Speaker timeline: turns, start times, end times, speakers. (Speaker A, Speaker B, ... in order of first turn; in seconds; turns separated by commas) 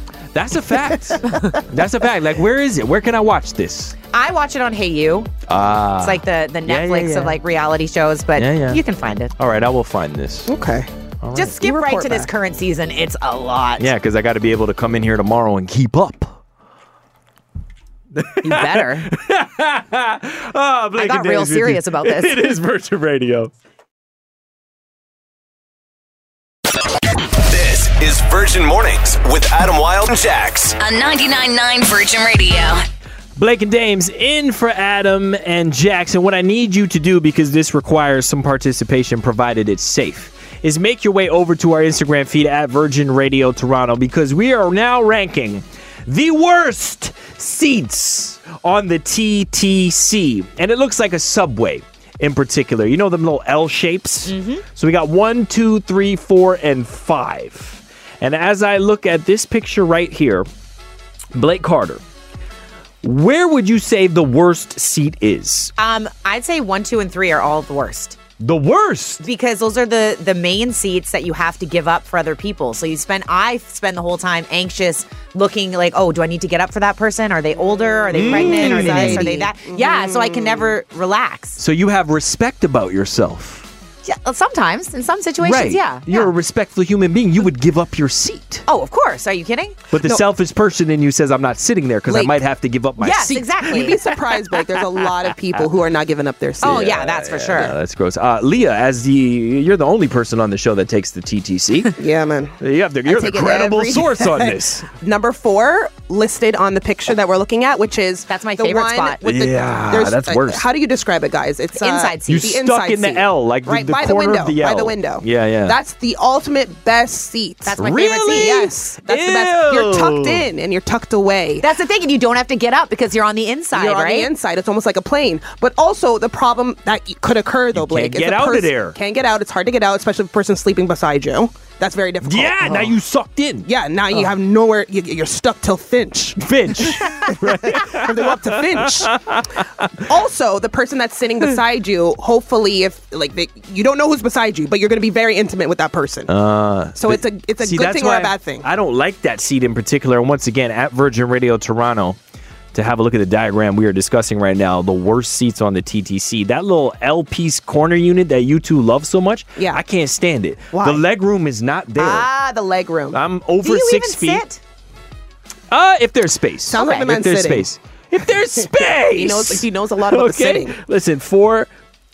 Speaker A: 0.3-4.0, Speaker B: 4.1-5.3, Speaker A: 5.5-7.4, Speaker B: 6.0-9.3, Speaker A: 8.4-8.8, Speaker A: 9.4-10.5, Speaker C: 10.5-10.9, Speaker A: 11.2-11.6, Speaker B: 11.3-13.9, Speaker C: 11.6-12.3, Speaker A: 13.8-16.4, Speaker A: 18.1-23.5, Speaker B: 18.4-19.1, Speaker B: 20.9-22.5, Speaker D: 27.1-30.8, Speaker E: 30.8-32.8, Speaker A: 33.4-60.5, Speaker B: 54.3-54.6, Speaker A: 61.3-62.0, Speaker A: 63.0-65.7, Speaker B: 65.8-68.2, Speaker A: 68.4-69.2, Speaker B: 69.2-81.6, Speaker C: 77.8-80.8, Speaker A: 78.1-79.3, Speaker A: 81.6-83.7, Speaker B: 84.0-86.3, Speaker A: 85.4-88.6, Speaker B: 88.7-89.8, Speaker A: 89.9-94.2, Speaker C: 90.0-90.3, Speaker C: 92.1-92.4, Speaker B: 93.0-94.0, Speaker C: 93.6-97.8, Speaker B: 96.6-97.7, Speaker A: 96.6-102.0, Speaker C: 102.0-121.7, Speaker A: 102.6-104.9, Speaker B: 108.3-109.2, Speaker A: 109.2-110.6, Speaker B: 111.7-112.5, Speaker A: 112.3-115.8, Speaker B: 117.6-118.7, Speaker A: 117.7-120.4, Speaker B: 121.6-124.3, Speaker C: 123.7-132.9, Speaker A: 127.7-128.9, Speaker A: 132.2-133.7, Speaker C: 133.6-139.2, Speaker A: 136.4-140.1, Speaker C: 140.0-146.3, Speaker A: 146.3-152.2, Speaker C: 147.0-148.7, Speaker A: 152.7-162.3, Speaker C: 159.6-159.8, Speaker C: 160.7-161.0, Speaker C: 162.0-163.2, Speaker A: 163.1-164.4, Speaker B: 163.6-164.6, Speaker A: 165.7-171.7, Speaker C: 166.7-167.7, Speaker B: 166.7-167.1, Speaker C: 168.8-170.8